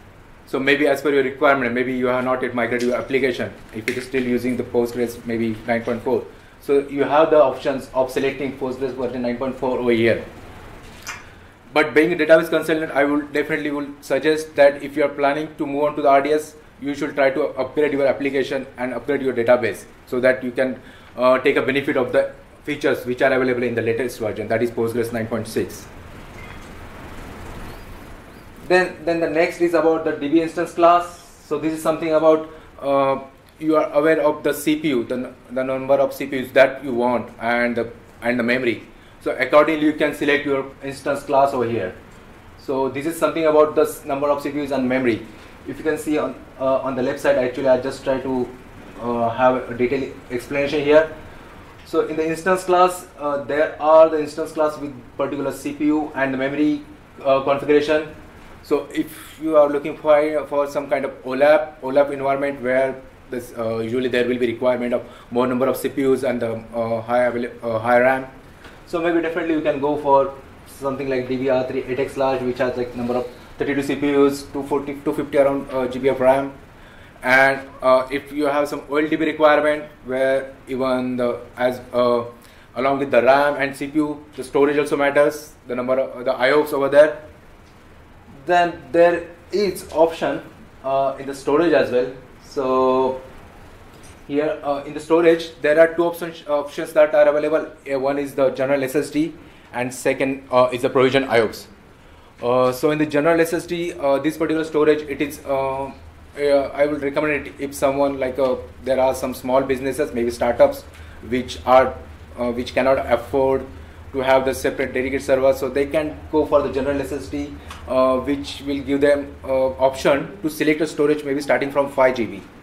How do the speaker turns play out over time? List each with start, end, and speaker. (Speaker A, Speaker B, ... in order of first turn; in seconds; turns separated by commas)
Speaker A: 0.5-10.2, Speaker A: 11.7-25.9, Speaker A: 28.6-42.0, Speaker A: 42.6-51.1, Speaker A: 51.9-58.1, Speaker A: 58.6-68.3, Speaker A: 68.9-76.5, Speaker A: 77.2-87.2, Speaker A: 88.4-93.2, Speaker A: 94.3-101.7, Speaker A: 102.4-122.5